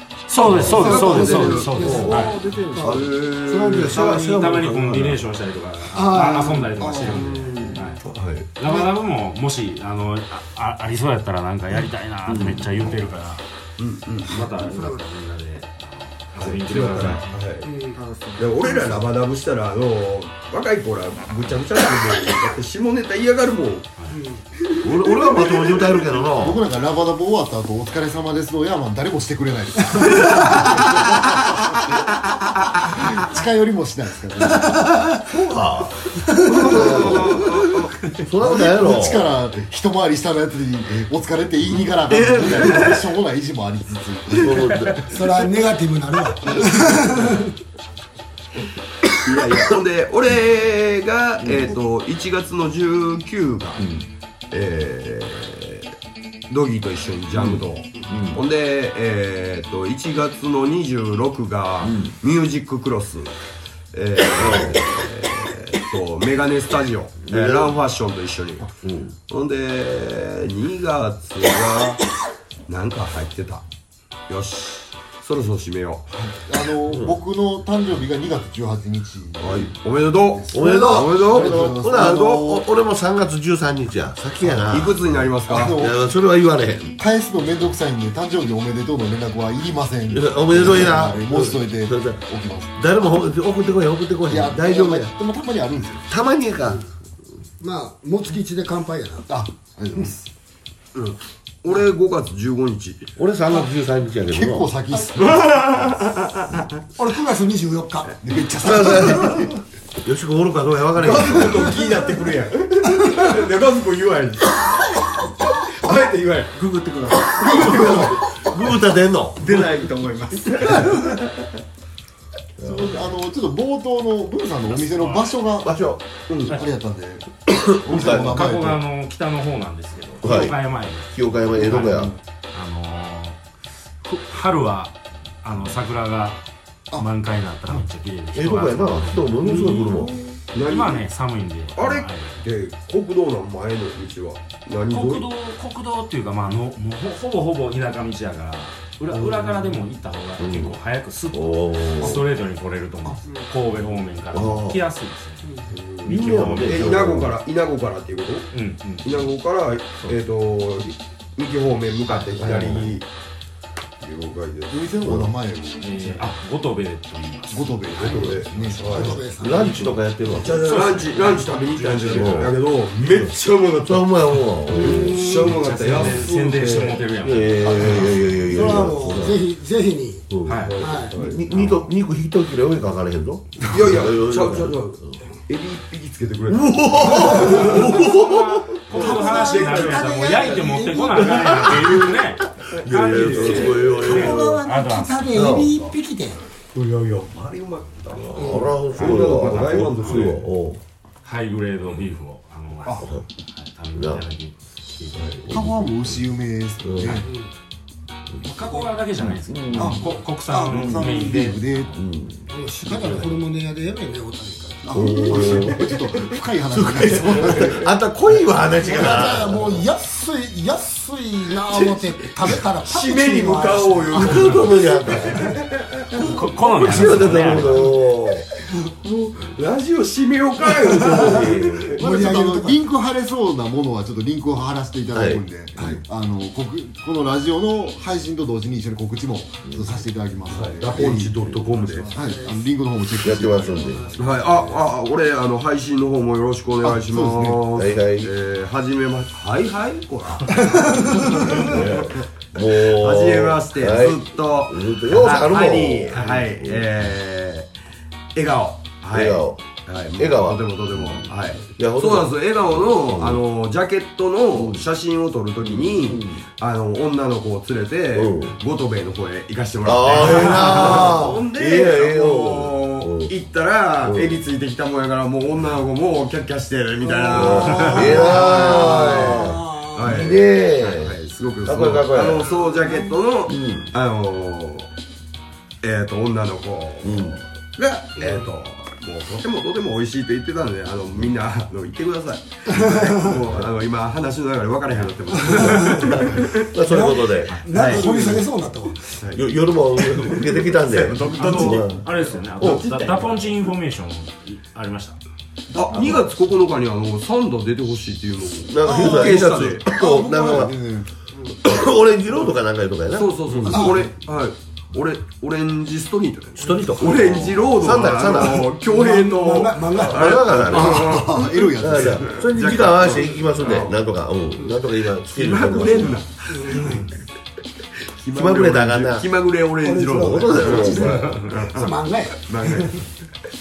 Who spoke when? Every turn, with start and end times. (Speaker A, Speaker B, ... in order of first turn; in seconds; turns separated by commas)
Speaker A: 0.3-2.4, Speaker B: 0.4-2.0, Speaker C: 0.4-2.2, Speaker D: 0.6-4.2, Speaker E: 1.7-3.2, Speaker C: 2.8-5.2, Speaker B: 2.9-4.4, Speaker A: 4.3-8.0, Speaker D: 5.9-6.7, Speaker F: 6.8-7.6, Speaker E: 6.8-7.8, Speaker B: 8.1-8.4, Speaker A: 8.5-13.4, Speaker C: 12.3-12.7, Speaker B: 13.8-14.5, Speaker A: 14.3-17.3, Speaker D: 14.6-15.1, Speaker B: 16.3-17.7, Speaker D: 17.6-18.0, Speaker E: 17.9-19.1, Speaker B: 18.4-23.9, Speaker D: 24.1-24.4, Speaker B: 24.7-26.0, Speaker C: 24.8-26.6, Speaker F: 26.4-32.1, Speaker F: 32.8-34.9, Speaker D: 34.6-35.2, Speaker C: 35.2-39.2, Speaker D: 36.2-36.9, Speaker B: 36.6-37.9, Speaker F: 38.4-44.8, Speaker B: 41.9-43.0, Speaker C: 42.1-43.0, Speaker C: 44.3-45.1, Speaker D: 45.1-47.5, Speaker B: 49.2-53.9, Speaker C: 53.8-54.0, Speaker B: 54.5-55.9, Speaker B: 56.5-63.3, Speaker C: 57.4-58.4, Speaker C: 61.8-62.1, Speaker B: 63.9-68.7, Speaker C: 64.4-64.8, Speaker C: 67.2-67.7, Speaker C: 68.8-69.1, Speaker B: 69.3-72.0, Speaker B: 72.7-73.6, Speaker B: 74.3-76.0, Speaker F: 76.1-79.7, Speaker C: 76.9-77.1, Speaker B: 79.4-82.5, Speaker F: 80.3-82.6, Speaker C: 80.5-85.0, Speaker B: 84.7-85.8, Speaker F: 85.5-86.0, Speaker C: 85.6-87.0, Speaker F: 87.0-92.7, Speaker C: 90.1-92.2, Speaker C: 92.8-95.1, Speaker F: 94.3-96.1, Speaker C: 96.1-96.9, Speaker D: 97.6-99.3, Speaker F: 99.3-100.3, Speaker B: 100.9-103.1, Speaker C: 103.2-104.7, Speaker F: 104.3-106.0, Speaker B: 105.2-106.7, Speaker D: 107.0-108.1, Speaker F: 108.2-109.5, Speaker C: 108.6-111.7, Speaker B: 111.0-114.6, Speaker B: 115.7-116.5, Speaker E: 116.5-117.9, Speaker C: 117.3-119.4, Speaker F: 117.4-118.2, Speaker B: 119.4-121.2, Speaker E: 119.5-121.0, Speaker C: 122.6-122.9, Speaker F: 122.6-125.7, Speaker A: 124.8-125.3, Speaker C: 125.6-126.0, Speaker B: 126.3-126.6, Speaker F: 126.5-127.2, Speaker C: 127.5-128.4, Speaker F: 127.8-128.8, Speaker A: 127.9-133.4, Speaker C: 130.2-132.2, Speaker A: 134.1-139.3, Speaker C: 138.3-140.2, Speaker B: 139.5-141.1, Speaker A: 140.5-142.4, Speaker B: 141.7-145.3, Speaker A: 144.9-157.0, Speaker C: 149.1-149.8, Speaker C: 150.4-150.8, Speaker C: 151.3-152.3, Speaker C: 154.3-154.8, Speaker C: 155.7-157.4, Speaker B: 156.6-158.5, Speaker A: 158.5-159.1, Speaker B: 159.0-163.1, Speaker C: 162.4-162.9, Speaker B: 164.0-164.8, Speaker F: 164.7-166.3, Speaker C: 165.0-165.3, Speaker A: 165.8-169.0, Speaker F: 167.5-169.2, Speaker C: 168.0-170.9, Speaker B: 168.1-169.2, Speaker D: 168.9-169.8, Speaker A: 169.5-172.5, Speaker B: 170.4-176.8, Speaker C: 172.1-172.6, Speaker C: 173.1-179.4, Speaker D: 174.7-175.5, Speaker A: 174.9-178.3, Speaker D: 178.5-180.3, Speaker C: 180.3-185.2, Speaker A: 180.4-181.8, Speaker D: 180.8-181.1, Speaker B: 181.1-181.4, Speaker B: 183.6-187.8, Speaker C: 186.5-188.8, Speaker D: 187.0-187.9, Speaker A: 187.2-195.4, Speaker D: 188.9-191.6, Speaker B: 188.9-190.3, Speaker C: 191.2-194.6, Speaker B: 192.9-193.9, Speaker D: 193.8-196.4, Speaker C: 195.3-195.9, Speaker B: 196.7-200.4, Speaker C: 198.2-200.8, Speaker D: 198.3-198.8, Speaker A: 200.0-200.4, Speaker A: 201.2-205.5, Speaker C: 202.9-203.2, Speaker C: 203.9-204.3, Speaker C: 205.2-206.2, Speaker F: 205.5-207.2, Speaker C: 206.8-207.2, Speaker D: 207.1-207.5, Speaker C: 208.3-210.1, Speaker A: 208.4-212.0, Speaker F: 209.8-211.9, Speaker C: 210.7-211.1, Speaker C: 211.9-213.3, Speaker D: 212.5-215.0, Speaker F: 214.8-217.9, Speaker C: 214.9-216.1, Speaker C: 216.7-219.8, Speaker B: 217.2-217.7, Speaker D: 218.8-224.6, Speaker B: 221.7-227.9, Speaker C: 224.1-225.6, Speaker A: 226.1-228.0, Speaker C: 226.8-228.5, Speaker B: 229.0-232.0, Speaker C: 231.0-232.1, Speaker D: 231.0-232.8, Speaker F: 232.0-241.4, Speaker C: 235.1-235.9, Speaker C: 239.7-240.0, Speaker B: 240.5-242.1, Speaker E: 241.7-242.2, Speaker F: 242.1-244.4, Speaker D: 242.1-242.7, Speaker C: 243.2-244.2, Speaker D: 243.9-244.3, Speaker B: 244.2-251.9, Speaker F: 246.8-247.6, Speaker C: 247.7-248.3, Speaker D: 250.6-251.4, Speaker C: 251.3-256.9, Speaker B: 252.6-257.7, Speaker B: 258.3-284.9, Speaker C: 259.1-259.6, Speaker C: 260.2-263.4, Speaker C: 264.5-264.8, Speaker C: 265.6-266.4, Speaker C: 268.1-268.6, Speaker C: 269.8-273.3, Speaker C: 274.0-274.4, Speaker D: 277.0-280.1, Speaker C: 277.3-282.7, Speaker A: 277.8-278.3, Speaker C: 283.5-283.9, Speaker B: 285.8-296.6, Speaker C: 287.0-287.4, Speaker D: 288.2-288.5, Speaker D: 292.7-293.3, Speaker D: 295.4-296.3, Speaker C: 295.4-298.1, Speaker D: 296.9-299.2, Speaker B: 297.5-298.4, Speaker C: 299.3-303.2, Speaker B: 300.8-303.3, Speaker A: 301.2-305.2, Speaker F: 305.7-306.3, Speaker B: 305.8-309.8, Speaker C: 308.7-310.7, Speaker F: 308.8-311.1, Speaker C: 311.6-314.0, Speaker B: 313.1-323.9, Speaker F: 313.7-314.0, Speaker D: 313.7-314.0, Speaker C: 316.6-318.7, Speaker D: 318.8-320.5, Speaker C: 320.0-326.2, Speaker F: 320.7-322.5, Speaker E: 322.6-323.4, Speaker B: 325.2-327.1, Speaker D: 326.5-327.1, Speaker B: 328.2-331.9, Speaker C: 328.2-329.3, Speaker D: 329.8-333.0, Speaker C: 330.1-331.5, Speaker B: 332.4-333.0